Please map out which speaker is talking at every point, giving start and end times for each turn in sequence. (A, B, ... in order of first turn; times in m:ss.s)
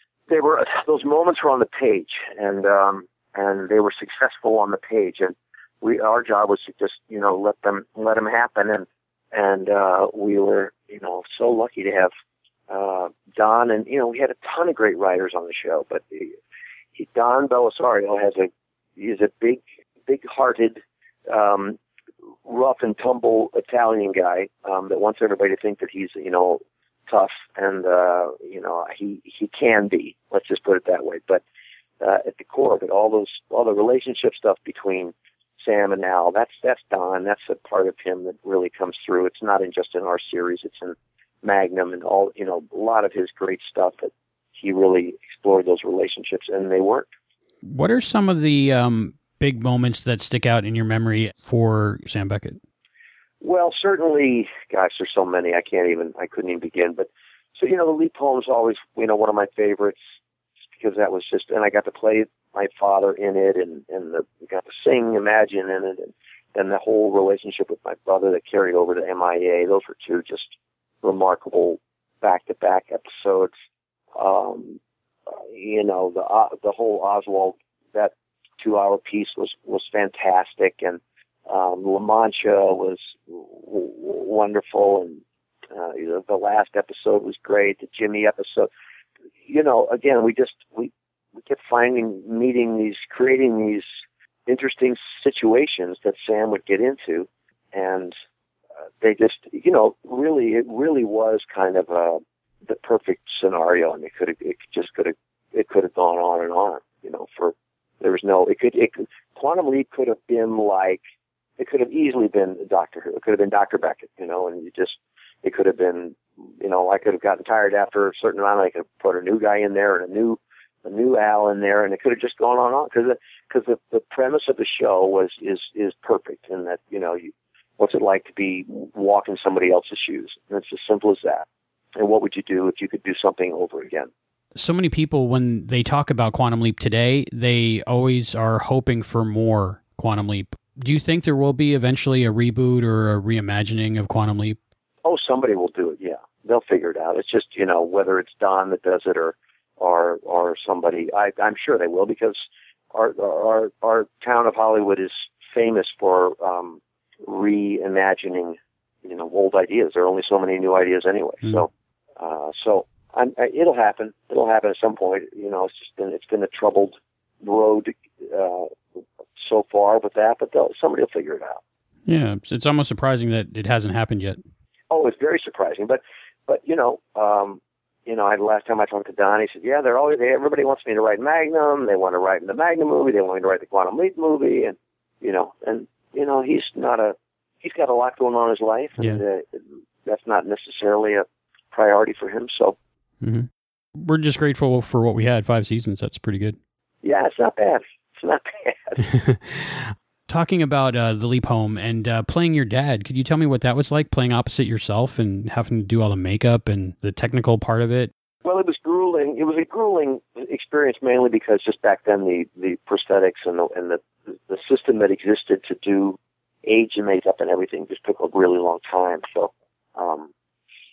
0:00.3-0:12.1 A
0:12.7-0:16.4 A
0:17.0-0:21.8 A
0:22.4-0:31.4 A
0:32.0-0:47.1 A
0:47.6-0:52.6 B
0:53.4-1:00.0 A
1:00.8-1:13.5 A
1:14.2-1:28.7 A
1:29.4-1:33.9 A
1:34.5-1:38.2 A
1:39.0-1:51.0 A
1:51.6-2:14.1 A
2:14.6-2:24.6 B
2:25.0-2:48.8 A
2:49.4-2:51.6 A
2:52.1-2:54.4 B
2:54.9-3:12.8 A
3:13.2-3:16.6 B
3:17.0-3:19.0 A
3:19.0-3:28.1 B
3:28.4-3:40.3 A